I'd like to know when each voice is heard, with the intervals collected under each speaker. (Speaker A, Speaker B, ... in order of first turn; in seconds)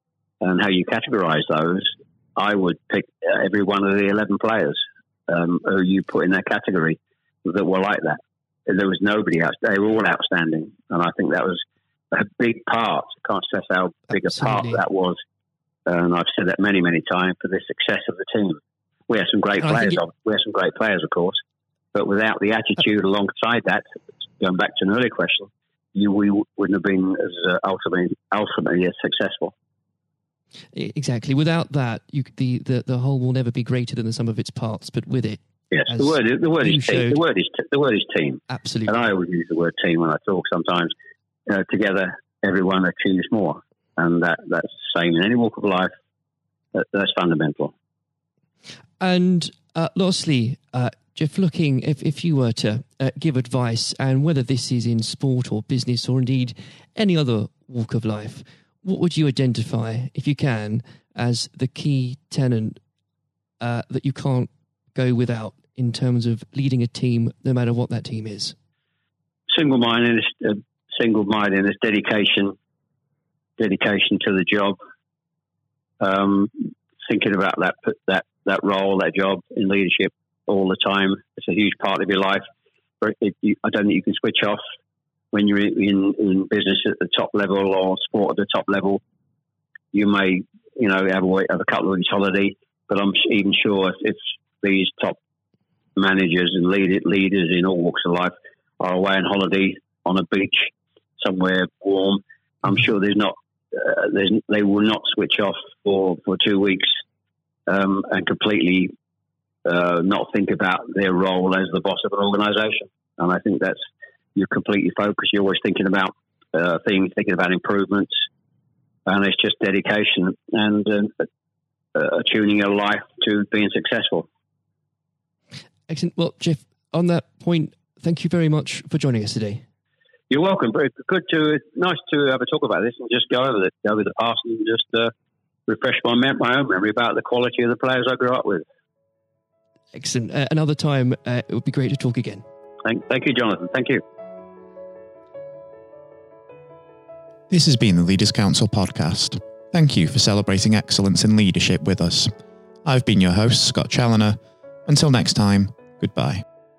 Speaker A: 0.4-11.6, 12.1-15.2, 15.8-21.4, 21.9-23.8, 24.4-29.5, 35.7-40.9, 41.5-45.9, 46.7-47.7, 69.5-72.5, 73.6-74.8, 76.0-82.4, 83.0-84.6, 85.3-89.0, 89.9-95.2, 96.0-106.9, 107.7-108.9, 109.6-113.8, 114.3-118.1, 119.0-121.2, 121.9-124.3, 130.3-135.1, 135.7-138.6, 142.8-144.0
Speaker B: 14.4-14.8, 30.7-37.2, 38.5-38.9, 49.0-62.8, 63.6-68.5, 125.9-129.6, 139.9-142.4
Speaker C: 147.5-156.4